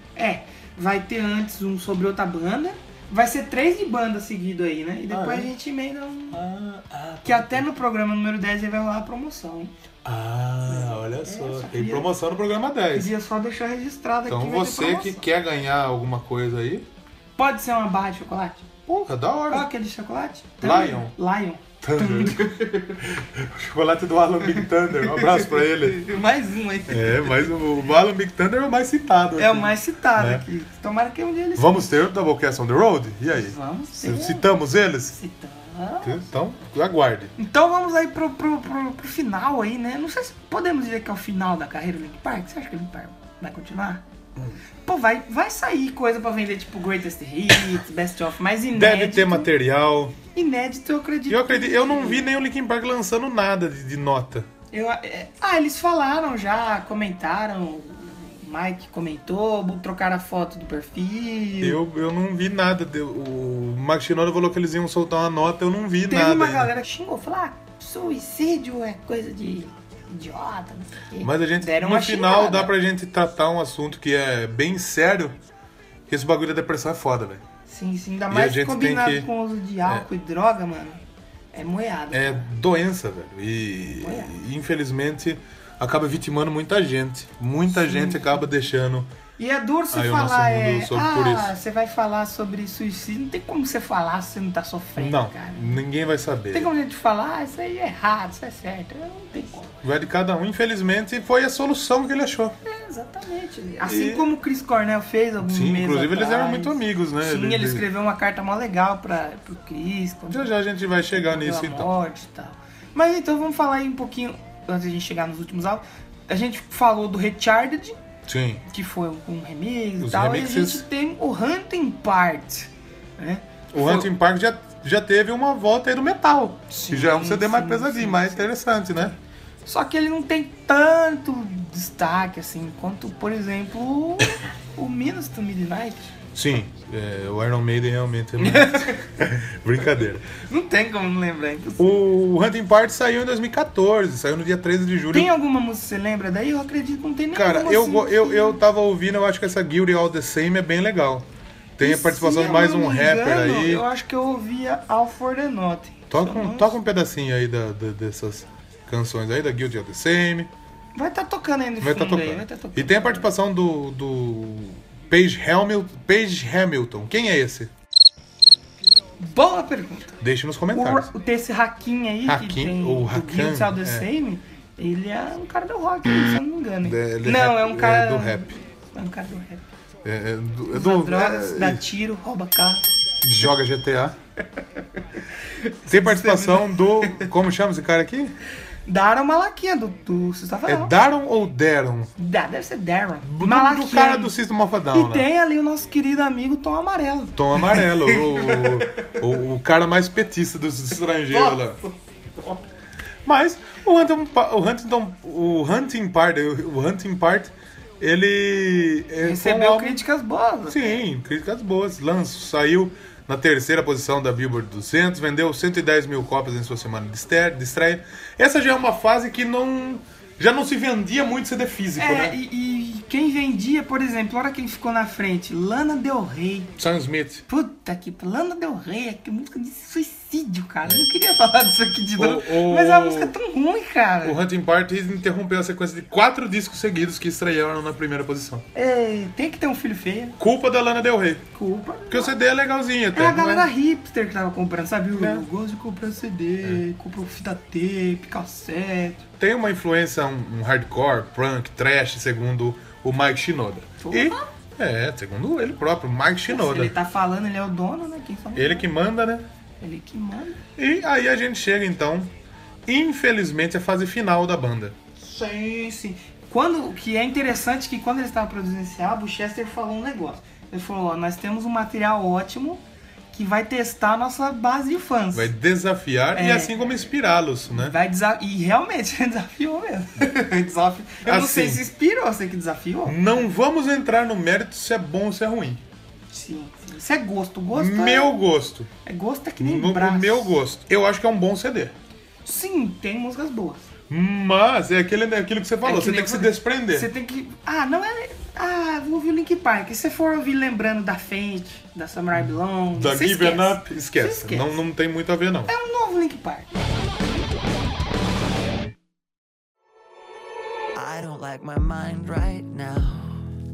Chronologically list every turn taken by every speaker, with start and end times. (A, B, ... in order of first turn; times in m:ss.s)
0:00.1-0:06.4 A
0:05.1-0:05.5 B
0:06.3-0:07.7 B
0:07.2-0:09.7 A
0:10.0-0:13.1 B
0:10.6-0:12.1 A
0:12.9-0:15.2 A
0:14.3-0:16.9 B
0:17.4-0:18.7 A
0:18.9-0:19.7 B
0:19.5-0:22.8 A
0:20.6-0:21.1 B
0:21.8-0:26.0 B
0:25.0-0:27.4 A
0:26.9-0:30.4 B
0:29.4-0:31.9 A
0:31.6-0:35.2 B
0:33.3-0:34.5 A
0:35.1-0:36.3 A
0:36.0-0:37.3 B
0:37.4-0:44.0 A
0:44.8-0:49.5 A
0:48.7-0:50.2 B
0:50.3-0:52.3 A
0:51.3-0:54.5 B
0:54.7-1:01.8 A
1:01.6-1:06.7 B
1:06.1-1:12.7 A
1:11.2-1:15.4 B
1:16.1-1:17.4 B
1:17.7-1:21.0 A
1:18.3-1:19.3 B
1:21.5-1:22.5 A
1:22.1-1:29.1 B
1:24.0-1:24.3 A
1:27.7-1:28.4 A
1:29.4-1:35.8 A
1:29.9-1:31.5 B
1:35.0-1:36.7 B
1:36.5-1:39.8 A
1:39.8-1:42.6 B
1:42.6-1:50.5 A
1:43.8-1:44.3 B
1:45.4-1:47.9 B
1:50.3-1:51.9 B
1:51.1-1:58.0 A
1:58.2-1:58.6 B
1:58.6-2:04.1 A
2:00.0-2:00.8 B
2:03.7-2:09.2 B
2:06.7-2:08.4 A
2:09.6-2:16.1 A
2:16.3-2:20.2 B
2:18.4-2:19.1 A
2:20.3-2:22.0 A
2:21.8-2:25.3 B
2:25.1-2:28.6 A
2:27.3-2:33.8 B
2:31.8-2:36.8 A
2:36.1-2:40.5 B
2:40.9-2:43.3 A
2:41.8-2:47.7 B
2:49.2-2:50.2 A
2:50.2-2:51.1 B
2:50.7-2:59.6 A
2:52.2-2:54.1 B
2:56.8-2:58.5 B
3:00.0-3:01.8 B
3:00.7-3:02.8 A
3:03.2-3:04.2 B
3:05.7-3:07.3 A
3:05.9-3:08.3 B
3:08.8-3:11.0 A
3:10.6-3:12.1 B
3:12.2-3:14.4 A
3:13.2-3:15.3 B
3:14.9-3:18.7 A
3:17.4-3:21.8 B
3:23.2-3:30.0 B
3:29.2-3:31.0 A
3:30.7-3:42.4 B
3:42.0-3:46.8 A
3:46.8-3:47.4 B
3:47.5-3:54.4 A
3:52.2-3:53.3 B
3:54.2-3:58.6 B
3:58.7-4:00.4 A
4:00.4-4:01.4 B
4:01.5-4:02.4 A
4:02.1-4:03.7 B
4:03.1-4:09.2 A
4:05.1-4:05.4 B
4:09.4-4:16.9 B
4:14.0-4:14.5 A
4:16.5-4:18.9 A
4:18.5-4:19.5 B
4:19.8-4:20.6 A
4:20.8-4:22.3 B
4:22.8-4:25.0 B
4:25.2-4:32.8 A
4:33.3-4:35.5 A
4:35.3-4:38.0 B
4:36.3-4:37.0 A
4:37.7-4:43.5 A
4:41.2-4:41.8 B
4:43.0-4:45.8 B
4:46.3-4:48.4 A
4:47.7-4:48.9 B
4:49.0-4:50.5 A
4:49.6-4:51.9 B
4:52.4-4:53.9 A
4:54.1-4:57.1 B
4:55.8-5:04.7 A
5:02.3-5:05.7 B
5:05.7-5:06.7 A
5:10.9-5:13.4 C